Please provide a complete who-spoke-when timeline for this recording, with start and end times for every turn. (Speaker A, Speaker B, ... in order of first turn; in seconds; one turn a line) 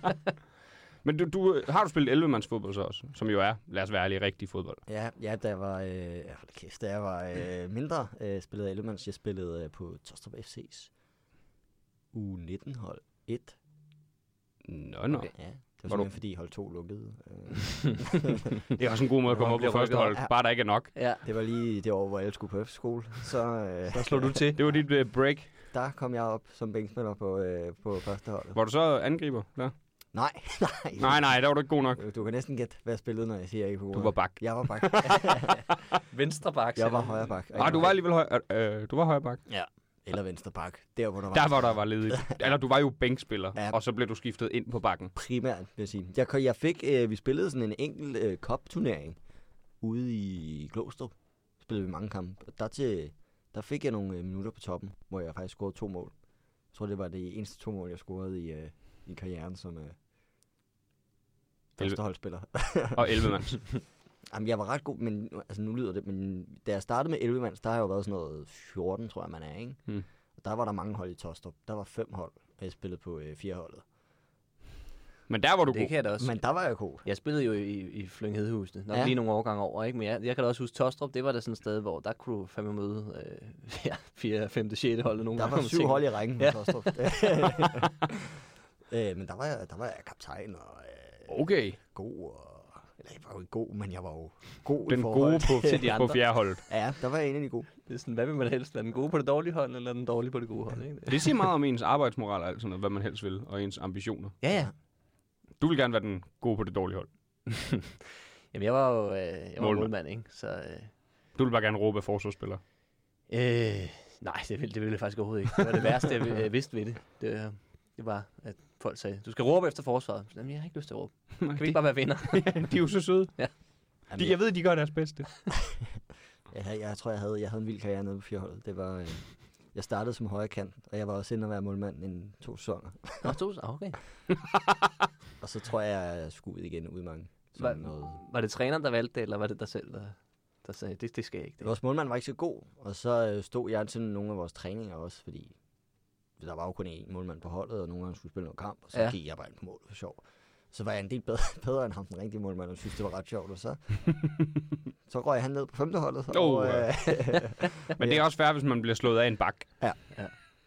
Speaker A: 1.0-4.8
Speaker B: 4.9-10.9
Speaker B: 12.1-13.6
Speaker A: 14.6-16.1
Speaker B: 15.3-18.5
Speaker A: 18.7-20.9
Speaker C: 19.3-20.2
Speaker C: 20.9-21.2
Speaker B: 21.2-24.8
Speaker C: 23.9-24.6
Speaker A: 24.5-25.5
Speaker B: 25.7-28.6
Speaker A: 28.5-29.7
Speaker B: 30.1-35.6
Speaker A: 31.0-32.0
Speaker A: 33.9-35.3
Speaker C: 36.1-37.9
Speaker B: 36.8-38.0
Speaker A: 37.5-39.4
Speaker B: 39.5-42.4
Speaker A: 41.3-45.1
Speaker B: 45.1-49.2
Speaker B: 49.8-56.1
Speaker B: 56.7-60.0
Speaker B: 61.8-63.3
Speaker A: 61.8-62.0
Speaker A: 62.9-63.8
Speaker B: 64.3-73.8
Speaker A: 75.3-75.9
Speaker C: 75.7-76.3
Speaker B: 76.2-77.0
Speaker C: 77.0-87.3
Speaker B: 78.9-79.2
Speaker B: 85.4-96.0
Speaker A: 91.3-91.8
Speaker A: 94.9-96.6
Speaker C: 95.5-96.2
Speaker B: 96.7-97.7
Speaker C: 97.8-101.3
Speaker A: 101.1-104.4
Speaker C: 104.4-104.7
Speaker A: 105.6-107.1
Speaker C: 107.5-108.0
Speaker C: 108.5-110.9
Speaker A: 109.6-109.9
Speaker A: 111.3-112.6
Speaker C: 113.3-122.7
Speaker A: 121.4-123.5
Speaker B: 124.1-124.4
Speaker A: 124.1-125.3
Speaker B: 126.5-133.4
Speaker C: 133.2-134.0
Speaker B: 135.4-138.2
Speaker C: 137.6-141.7
Speaker B: 141.6-145.6
Speaker B: 146.4-154.3
Speaker B: 155.1-158.2
Speaker A: 156.3-159.7